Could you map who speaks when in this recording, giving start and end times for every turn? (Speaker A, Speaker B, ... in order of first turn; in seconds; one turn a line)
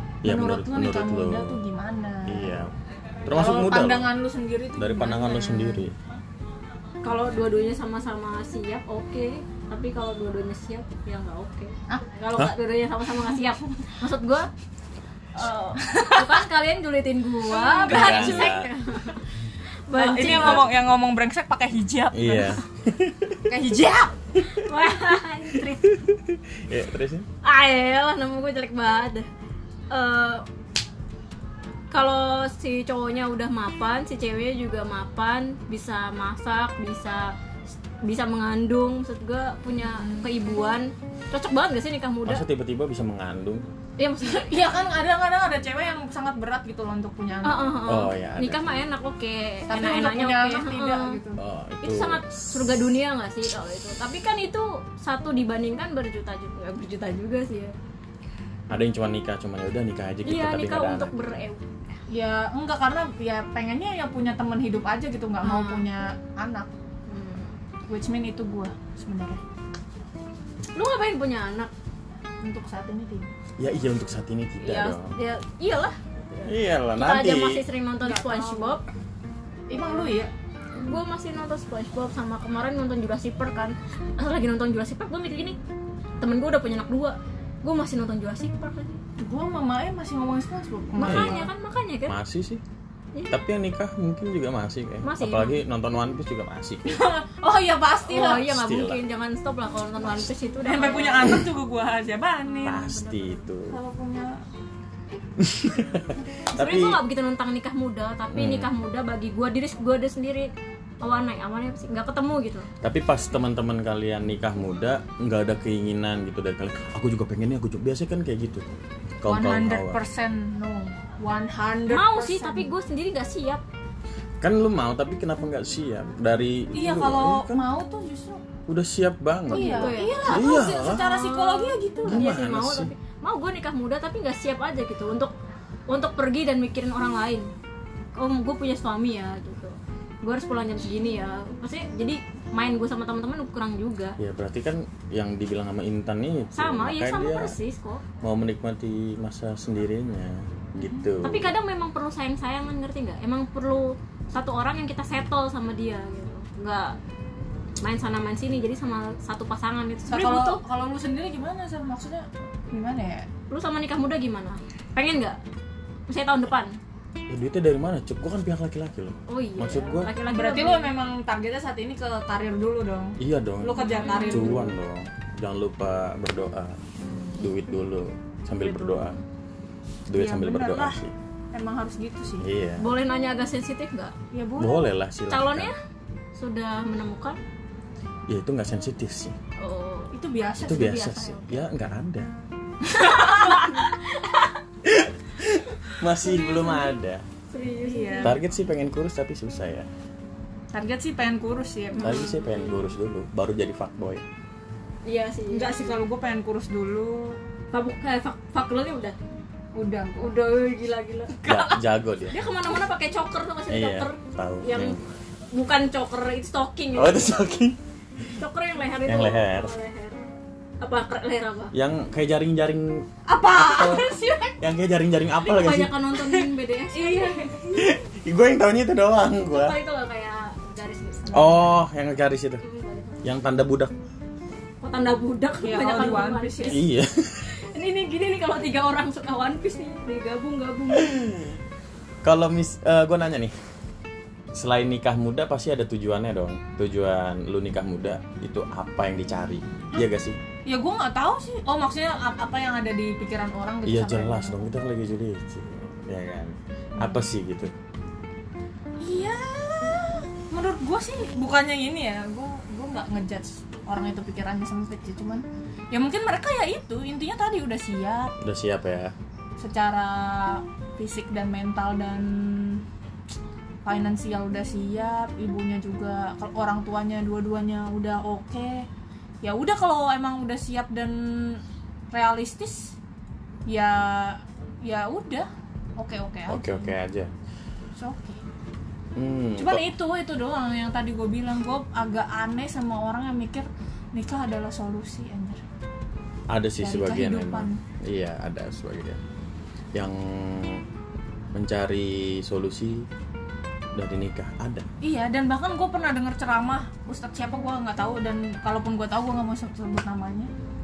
Speaker A: 0.2-1.6
Speaker B: 0.2-2.6
Speaker A: 2.2-2.7
Speaker A: 3.2-4.1
Speaker B: 3.3-5.9
Speaker A: 4.8-5.9
Speaker C: 7.0-14.5
Speaker C: 15.3-19.2
Speaker B: 15.8-16.4
Speaker B: 17.4-18.6
Speaker A: 17.9-18.7
Speaker C: 19.9-20.7
Speaker B: 19.9-22.6
Speaker A: 20.3-20.6
Speaker A: 22.1-23.4
Speaker B: 23.5-24.1
Speaker C: 24.4-26.0
Speaker A: 25.6-27.3
Speaker C: 27.4-29.3
Speaker C: 29.9-30.4
Speaker C: 31.9-37.3
Speaker C: 38.0-42.4
Speaker B: 39.9-40.3
Speaker A: 42.2-43.6
Speaker C: 44.0-44.7
Speaker B: 44.2-47.8
Speaker C: 47.4-51.1
Speaker A: 47.9-48.8
Speaker B: 49.7-51.4
Speaker A: 51.4-52.6
Speaker C: 51.8-57.8
Speaker A: 58.7-61.3
Speaker C: 60.2-61.6
Speaker B: 62.1-66.7
Speaker C: 65.4-65.9
Speaker C: 67.1-67.5
Speaker B: 67.9-69.4
Speaker C: 70.8-71.7
Speaker B: 72.4-73.3
Speaker A: 73.6-75.1
Speaker C: 74.6-78.8
Speaker A: 76.4-77.6
Speaker B: 78.0-78.8
Speaker B: 79.7-80.3
Speaker C: 79.7-80.0
Speaker C: 80.8-85.6
Speaker C: 86.2-89.0
Speaker B: 89.2-91.5
Speaker A: 90.9-91.5
Speaker C: 91.0-92.2
Speaker A: 92.1-92.6
Speaker C: 93.1-93.4
Speaker A: 93.3-97.0
Speaker C: 95.0-95.6
Speaker B: 96.8-98.5
Speaker C: 98.1-101.4
Speaker A: 98.3-99.0
Speaker B: 100.6-102.8
Speaker C: 102.5-103.5
Speaker A: 102.6-103.8
Speaker B: 103.7-104.4
Speaker A: 105.4-107.0
Speaker C: 106.5-110.5
Speaker A: 108.3-108.7
Speaker C: 111.0-112.7
Speaker A: 112.8-120.0
Speaker B: 119.2-122.7
Speaker C: 121.9-123.6
Speaker A: 124.4-127.6
Speaker B: 126.7-128.4
Speaker A: 128.7-131.0
Speaker B: 129.5-132.3
Speaker C: 129.5-135.3
Speaker A: 132.0-132.9
Speaker C: 135.9-137.5
Speaker C: 138.1-144.2
Speaker A: 144.2-147.5
Speaker C: 146.5-148.0
Speaker A: 148.2-151.5
Speaker B: 150.8-151.1
Speaker C: 151.2-156.9
Speaker C: 157.8-160.6
Speaker B: 160.1-163.3
Speaker C: 163.5-165.4
Speaker C: 166.1-166.8
Speaker A: 167.3-170.1
Speaker C: 169.3-170.9
Speaker B: 170.3-174.7
Speaker A: 173.2-176.8
Speaker C: 173.8-174.7
Speaker A: 177.4-179.2
Speaker C: 178.6-179.2
Speaker A: 180.1-181.1
Speaker B: 180.1-181.0
Speaker B: 181.5-182.5
Speaker A: 182.4-182.8
Speaker C: 182.8-184.1
Speaker B: 184.3-184.9
Speaker A: 184.6-185.7
Speaker C: 185.3-185.8
Speaker C: 186.3-187.4
Speaker A: 188.3-189.3
Speaker C: 189.6-191.7
Speaker B: 190.1-191.1
Speaker A: 190.6-192.3
Speaker B: 192.9-193.9
Speaker C: 192.9-194.6
Speaker A: 194.8-197.2
Speaker C: 196.2-196.9
Speaker C: 197.5-198.3
Speaker B: 197.8-198.4
Speaker A: 198.2-199.9
Speaker B: 200.7-202.3
Speaker C: 201.9-202.8
Speaker A: 202.0-204.2
Speaker C: 205.1-206.0
Speaker B: 205.5-207.4
Speaker C: 207.7-209.2
Speaker B: 209.7-210.3
Speaker C: 210.2-215.0
Speaker A: 211.4-212.4
Speaker A: 213.7-215.0
Speaker C: 215.5-217.3
Speaker A: 216.9-217.8
Speaker C: 218.3-220.2
Speaker A: 219.0-219.7
Speaker C: 220.8-221.7
Speaker A: 221.7-225.9
Speaker B: 223.3-224.6
Speaker C: 225.4-227.6
Speaker B: 226.2-227.9
Speaker A: 227.7-229.8
Speaker C: 229.4-231.4
Speaker B: 231.2-231.8
Speaker A: 231.3-232.6
Speaker C: 232.6-233.3
Speaker A: 233.2-233.9
Speaker C: 234.8-236.8
Speaker B: 235.6-236.9
Speaker A: 236.7-237.5
Speaker C: 237.5-241.2
Speaker A: 240.9-241.6
Speaker A: 242.2-243.5
Speaker A: 244.5-250.4
Speaker B: 250.7-254.6
Speaker A: 253.8-257.7
Speaker B: 257.0-257.2
Speaker B: 259.0-268.3
Speaker A: 268.4-269.1
Speaker B: 269.6-272.8
Speaker B: 273.8-278.9
Speaker B: 279.4-282.9
Speaker B: 283.7-286.9
Speaker A: 286.5-287.3
Speaker B: 287.9-288.4
Speaker A: 289.1-289.8
Speaker B: 289.6-295.6
Speaker A: 296.5-299.2
Speaker B: 296.8-297.8
Speaker A: 299.9-300.8
Speaker A: 301.5-303.1
Speaker A: 303.9-304.9
Speaker B: 305.0-310.5